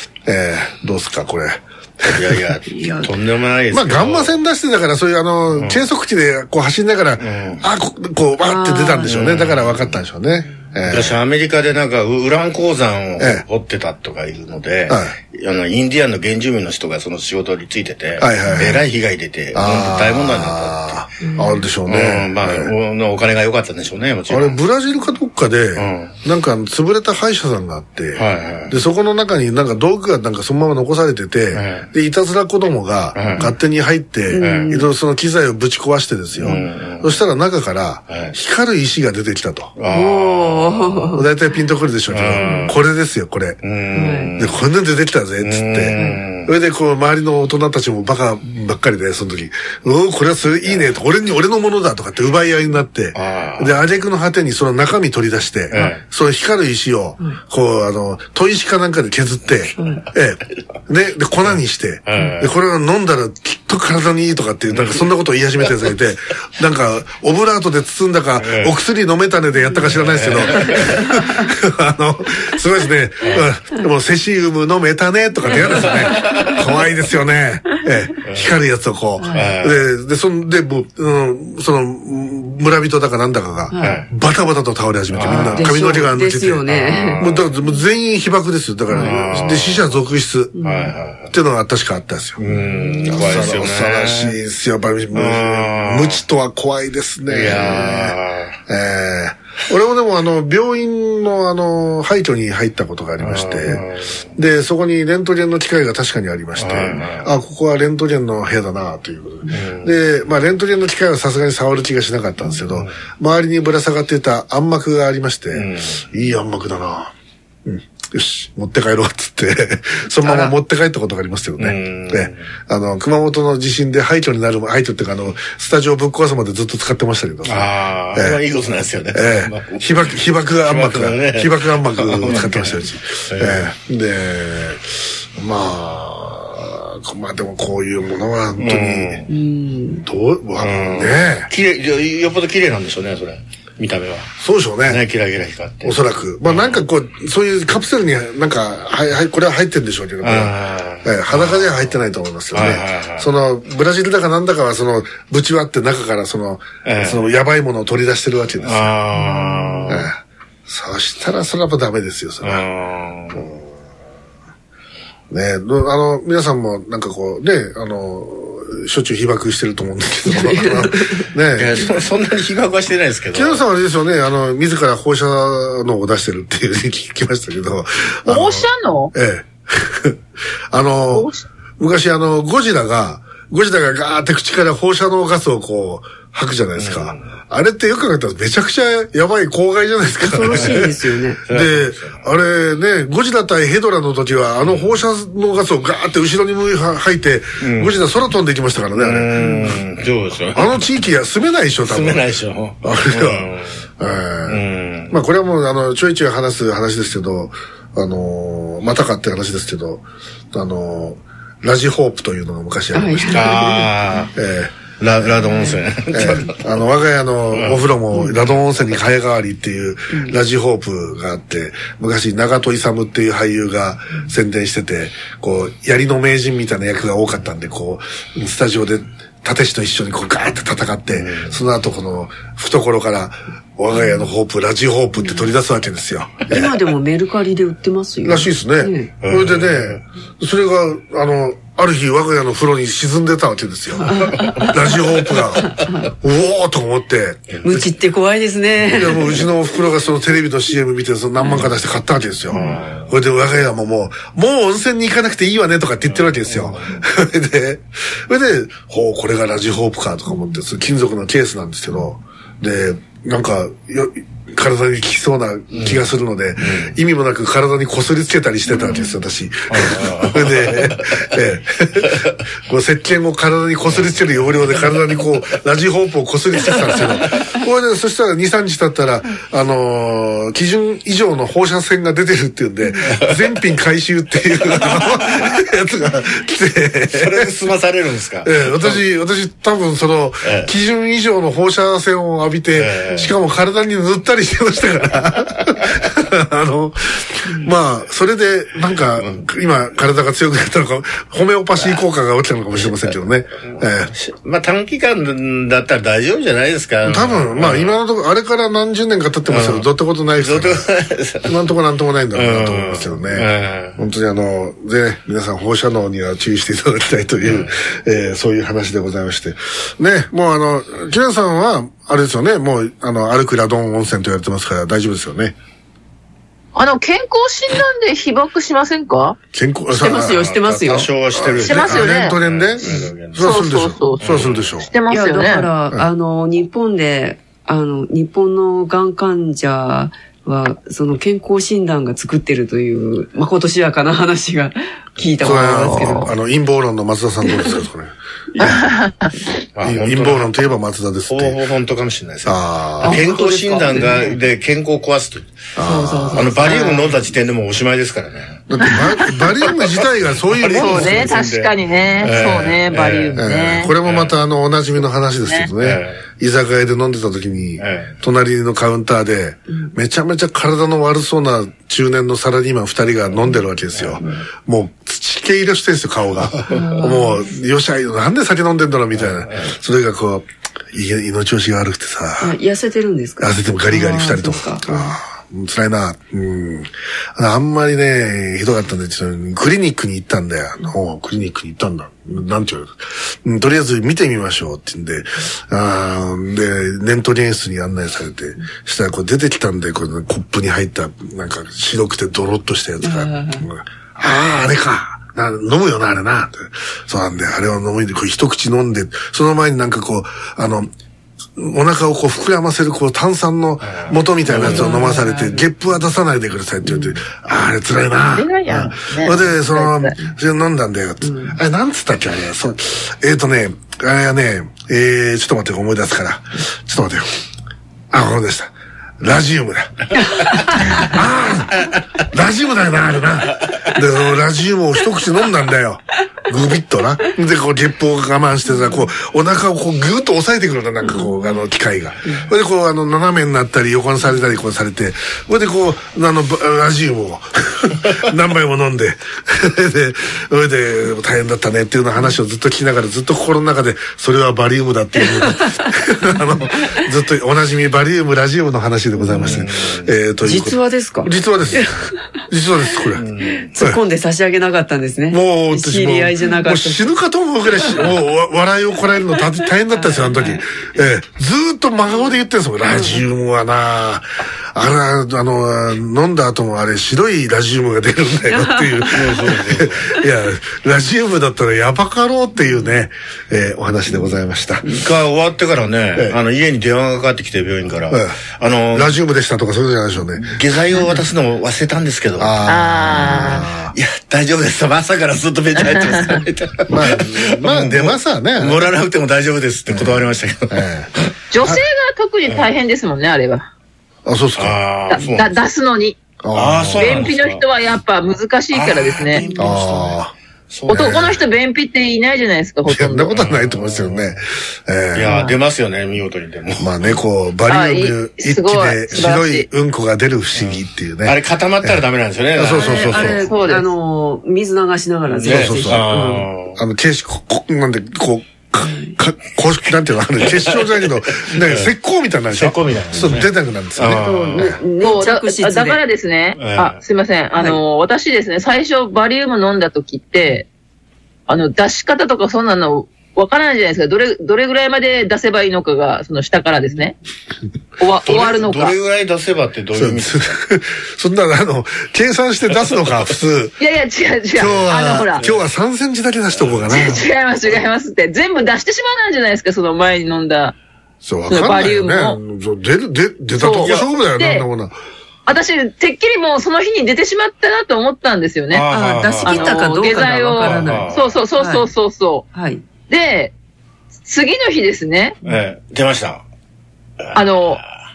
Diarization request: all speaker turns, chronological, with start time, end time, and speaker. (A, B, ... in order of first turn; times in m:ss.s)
0:00.2-0:02.4 A
0:02.2-0:04.4 B
0:02.7-0:03.1 C
0:03.7-0:11.2 A
0:05.5-0:05.9 B
0:07.2-0:07.7 B
0:08.4-0:09.1 C
0:09.0-0:10.0 B
0:10.9-0:21.1 B
0:13.2-0:13.4 A
0:14.9-0:15.2 A
0:18.2-0:18.8 A
0:18.4-0:18.8 C
0:19.5-0:22.7 A
0:21.2-0:21.6 C
0:21.9-0:24.6 B
0:24.3-0:39.8 A
0:25.8-0:26.2 B
0:28.2-0:28.8 B
0:31.5-0:31.9 B
0:33.2-0:33.5 B
0:34.3-0:34.9 C
0:34.4-0:34.8 B
0:36.4-0:37.2 B
0:38.1-0:38.3 B
0:39.8-0:41.1 B
0:39.9-0:41.3 C
0:41.1-0:43.6 A
0:42.1-0:42.8 B
0:42.4-0:42.7 C
0:43.6-0:44.6 B
0:43.9-0:44.3 C
0:44.3-1:26.6 A
0:45.4-0:46.5 B
0:46.0-0:46.2 C
0:53.2-0:53.8 B
0:55.7-0:56.0 B
0:59.8-1:00.0 C
1:01.4-1:02.5 B
1:04.7-1:05.0 B
1:08.4-1:08.8 B
1:09.8-1:11.0 B
1:15.7-1:16.6 B
1:18.3-1:18.6 B
1:19.2-1:19.6 C
1:19.3-1:19.8 B
1:23.7-1:24.0 C
1:23.8-1:24.1 B
1:25.1-1:25.7 B
1:25.2-1:27.3 C
1:26.7-1:27.5 B
1:27.2-1:30.6 A
1:28.9-1:30.0 B
1:30.6-1:31.0 C
1:30.6-1:31.3 B
1:31.3-1:32.4 A
1:32.4-1:34.4 B
1:32.5-1:33.4 C
1:33.0-1:43.8 A
1:35.1-1:36.2 B
1:37.3-1:38.6 B
1:43.2-1:44.3 B
1:44.4-1:57.1 A
1:46.6-1:47.3 B
1:49.5-1:50.0 B
1:52.7-1:53.0 B
1:55.5-1:56.0 B
1:57.7-2:08.4 A
2:00.2-2:00.5 B
2:01.6-2:02.4 B
2:07.4-2:13.7 B
2:09.1-2:19.2 A
2:18.6-2:19.3 B
2:19.3-2:20.0 C
2:20.0-2:21.5 A
2:20.6-2:24.3 B
2:24.4-2:25.0 A
2:24.8-2:26.8 B
2:25.8-2:38.9 A
2:30.2-2:32.0 B
2:32.5-2:33.3 B
2:36.8-2:37.2 B
2:38.6-2:40.1 B
2:39.1-2:40.0 C
2:39.9-2:42.7 A
2:42.4-2:43.4 B
2:43.3-2:43.7 A
2:45.3-2:51.9 A
2:50.3-2:51.3 C
2:51.6-2:53.6 B
2:53.3-3:00.2 A
2:58.3-2:59.1 D
3:00.7-3:19.7 A
3:01.1-3:01.4 D
3:06.8-3:07.3 B
3:10.2-3:11.4 C
3:10.4-3:10.8 B
3:11.5-3:12.2 B
3:14.6-3:15.0 B
3:17.6-3:18.0 B
3:19.0-3:20.8 B
3:19.4-3:19.8 C
3:20.5-3:22.3 A
3:21.8-3:23.8 B
3:22.8-3:33.5 A
3:24.5-3:25.2 B
3:32.9-3:33.9 C
3:33.3-3:34.3 B
3:34.4-3:34.8 A
3:35.0-3:36.6 B
3:35.4-3:35.8 C
3:36.1-3:56.8 A
3:37.5-3:37.8 B
3:38.1-3:38.4 C
3:51.1-3:51.7 B
3:53.9-3:54.2 C
3:55.2-3:55.5 C
3:56.5-3:59.1 C
3:58.2-4:07.6 A
3:59.2-4:00.0 B
4:04.1-4:04.7 C
4:04.1-4:04.7 B
4:05.3-4:05.9 B
4:07.5-4:07.8 B
4:07.6-4:09.2 C
4:08.9-4:47.5 A
4:12.5-4:13.1 B
4:12.5-4:12.8 C
4:16.0-4:17.0 B
4:25.7-4:26.0 B
4:26.6-4:27.0 B
4:29.7-4:31.3 B
4:33.8-4:35.0 B
4:43.1-4:43.3 B
4:47.1-4:49.0 B
4:48.4-5:04.1 A
4:50.4-4:50.7 B
4:52.7-4:53.3 B
4:59.2-4:59.4 B
5:01.8-5:02.0 B
5:02.8-5:03.1 B
5:03.7-5:08.0 B
5:07.0-5:10.9 A
5:09.5-5:11.6 B
5:11.4-5:25.6 A
5:12.3-5:14.0 B
5:17.4-5:17.7 B
5:26.8-5:29.4 D
5:29.5-5:30.5 A
5:29.9-5:31.1 C
5:30.4-5:33.6 B
5:31.3-5:34.9 A
5:31.6-5:32.4 D
5:32.8-5:33.1 C
5:33.4-5:35.7 D
5:34.2-5:34.7 B
5:35.1-5:46.3 C
5:45.4-5:48.9 A
5:45.8-5:46.3 D
5:48.6-5:49.3 D
5:49.8-5:50.5 B
5:49.8-5:51.6 A
5:51.3-5:55.5 B
5:52.4-5:53.2 A
5:53.0-5:54.4 C
5:55.8-5:56.7 A
5:55.8-5:57.1 C
5:56.3-5:58.9 B
5:58.7-6:01.4 A
6:00.6-6:03.4 B
6:00.7-6:03.9 D
6:03.4-6:22.6 A
6:04.0-6:04.4 B
6:05.4-6:05.7 D
6:05.8-6:06.2 B
6:07.8-6:08.2 B
6:13.5-6:14.2 B
6:16.7-6:17.5 C
6:19.1-6:19.7 B
6:22.4-6:25.2 C
6:23.4-6:50.9 A
6:43.0-6:43.7 C
6:51.6-7:07.3 A
6:53.8-6:55.1 B
6:54.6-6:55.7 C
6:58.3-7:00.2 D
7:01.2-7:01.6 C
7:08.1-7:10.2 A
7:10.8-7:43.3 A
7:18.7-7:19.0 C
7:21.1-7:21.3 C
7:39.2-7:39.7 C
7:39.4-7:40.1 B
7:40.4-7:42.1 C
7:43.2-7:43.7 B
7:43.5-7:47.2 C
7:45.3-8:05.0 A
7:49.9-7:50.6 C
7:52.9-7:53.2 C
7:58.5-7:59.2 C
7:59.1-8:00.1 B
8:04.9-8:09.2 B
8:08.1-8:08.4 A
8:08.9-8:11.0 A
8:10.4-8:12.6 B
8:12.4-8:13.9 A
8:12.7-8:13.7 D
8:13.9-8:21.3 B
8:15.8-8:16.4 D
8:16.9-8:18.9 A
8:19.9-8:21.1 A
8:21.5-8:23.7 D
8:22.4-8:22.7 B
8:24.2-8:24.8 A
8:24.6-8:25.6 B
8:25.1-8:26.2 D
8:25.2-8:25.4 C
8:26.4-8:27.3 A
8:26.5-8:27.7 B
8:27.0-8:29.4 D
8:28.7-8:30.2 B
8:29.4-8:30.1 C
8:29.6-8:30.3 A
8:30.7-8:31.4 B
8:30.9-8:31.4 A
8:30.9-8:33.3 D
8:32.9-8:35.3 A
8:33.3-8:34.4 B
8:35.1-8:37.2 B
8:35.3-8:35.6 D
8:36.8-8:43.5 A
8:37.7-8:39.7 D
8:40.5-8:43.4 B
8:42.7-8:46.5 C
8:43.4-8:43.9 D
8:45.3-8:46.8 B
8:45.5-8:46.1 A
8:46.8-8:54.8 A
8:48.8-8:49.2 C
8:50.4-8:51.0 B
8:51.6-8:51.9 B
8:52.5-8:54.8 B
8:54.1-8:56.0 C
8:55.0-9:00.7 D
8:56.6-8:57.0 B
9:01.5-9:07.2 D
9:08.0-9:09.0 D
9:08.2-9:10.4 B
9:10.0-9:13.8 A
9:13.8-9:15.4 D
9:14.5-9:17.2 A
9:16.5-9:17.1 B
9:16.9-9:20.8 D
9:21.2-9:25.0 A
9:21.5-9:22.4 D
9:23.6-9:24.6 D
9:23.7-9:24.1 B
9:25.5-9:28.9 D
9:28.7-9:29.8 B
9:28.9-9:31.9 C
9:29.5-9:32.4 D
9:30.6-9:31.4 B
9:32.5-9:32.8 C
9:33.1-9:33.5 D
9:34.3-9:35.4 D
9:35.4-9:36.4 B
9:37.2-9:38.0 B
9:37.3-9:37.8 D